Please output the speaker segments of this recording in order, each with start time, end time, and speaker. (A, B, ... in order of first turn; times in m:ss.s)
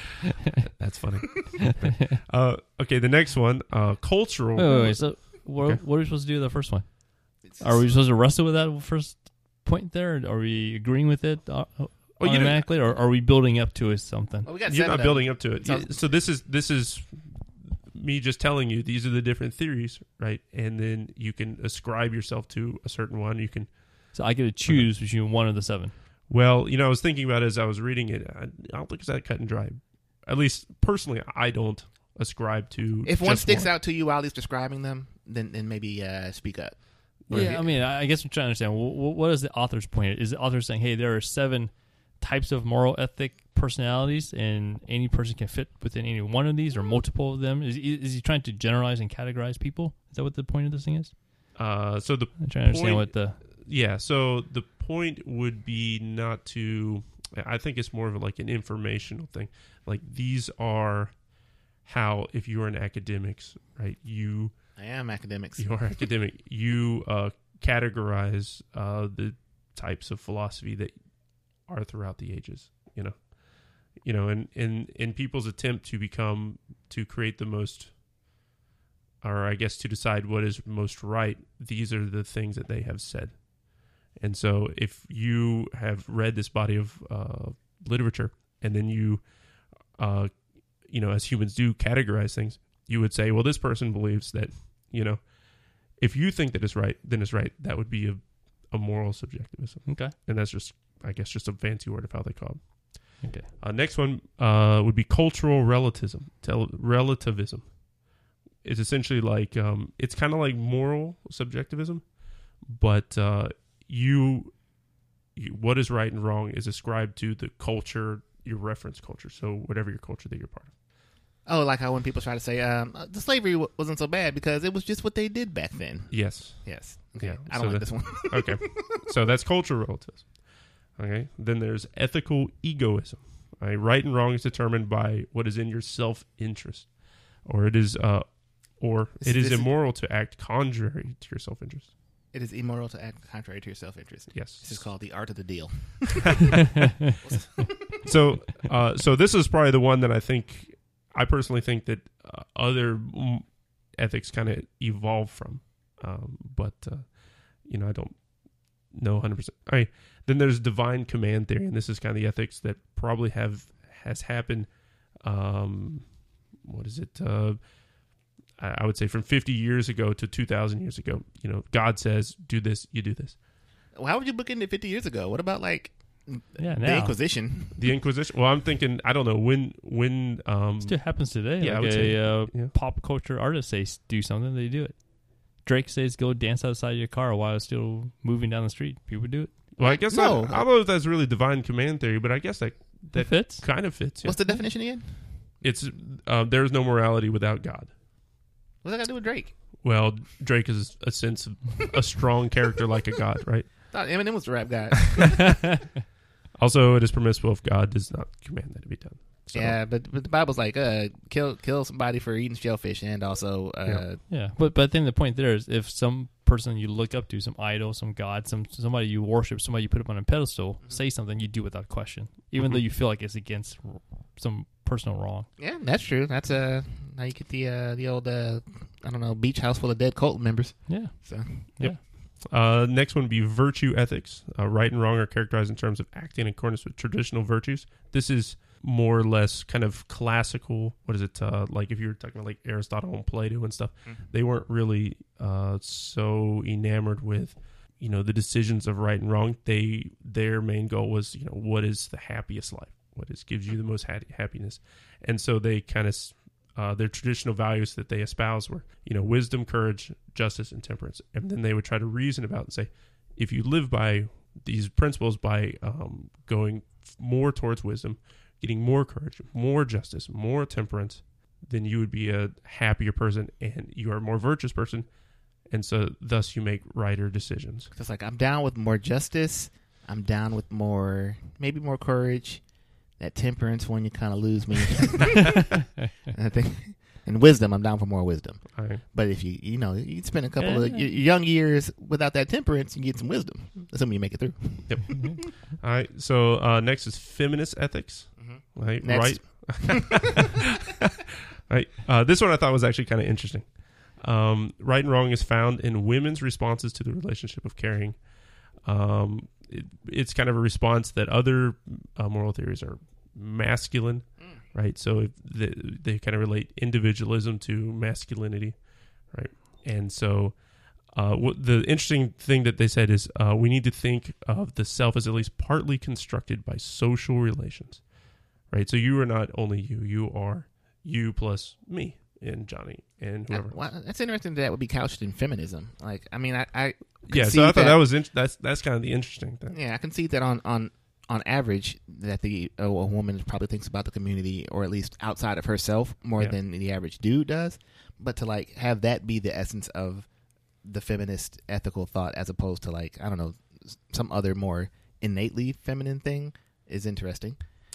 0:00.7-0:05.8 A
0:04.6-0:14.5 B
0:07.4-0:07.8 C
0:12.2-0:12.7 A
0:14.4-0:16.0 C
0:14.6-0:17.3 A
0:17.9-0:23.7 A
0:24.1-0:25.9 B
0:26.3-0:33.7 A
0:33.0-0:37.6 C
0:37.3-0:37.6 A
0:37.3-0:51.1 B
0:51.6-1:01.1 A
0:52.4-0:53.4 B
1:01.8-1:04.5 A
1:04.8-1:05.8 C
1:05.6-1:10.9 A
1:11.6-1:13.3 A
1:13.9-1:17.9 A
1:19.2-1:23.4 A
1:24.1-1:29.2 A
1:30.0-1:35.3 A
1:35.9-1:47.7 A
1:39.9-1:40.1 B
1:43.2-1:43.5 B
1:48.6-1:52.0 A
1:52.6-1:54.5 A
1:55.4-2:00.7 A
2:01.4-2:09.1 C
2:06.1-2:10.3 A
2:11.0-2:16.9 A
2:17.4-2:21.9 A
2:19.2-2:19.7 C
2:22.3-2:28.0 C
2:24.3-2:24.8 A
2:28.0-2:38.2 A
2:38.9-2:44.7 A
2:45.2-2:46.1 A
2:46.6-2:47.6 A
2:48.6-2:53.4 A
2:53.9-2:57.8 C
2:56.6-2:57.2 B
2:57.7-3:02.7 A
3:00.8-3:09.5 B
3:09.8-3:14.6 A
3:09.8-3:10.6 C
3:13.1-3:13.6 B
3:14.2-3:15.1 C
3:15.6-3:17.9 A
3:18.8-3:19.5 C
3:19.8-3:23.7 A
3:23.9-3:25.6 C
3:25.1-3:25.4 A
3:26.6-3:29.8 A
3:29.5-3:34.2 C
3:34.3-3:45.5 B
3:45.6-3:51.7 C
3:50.9-3:52.0 B
3:51.8-4:35.1 A
4:35.7-4:37.9 A
4:37.9-4:42.6 C
4:43.2-4:45.6 C
4:46.3-4:55.2 C
4:48.7-4:49.0 A
4:50.6-4:51.1 B
4:54.9-5:08.2 A
4:58.4-5:00.3 C
5:08.8-5:18.8 A
5:19.3-5:20.6 A
5:21.1-5:28.0 A
5:28.7-5:33.8 A
5:33.5-5:38.0 C
5:37.3-5:39.8 A
5:39.7-5:50.3 C
5:50.8-5:57.6 C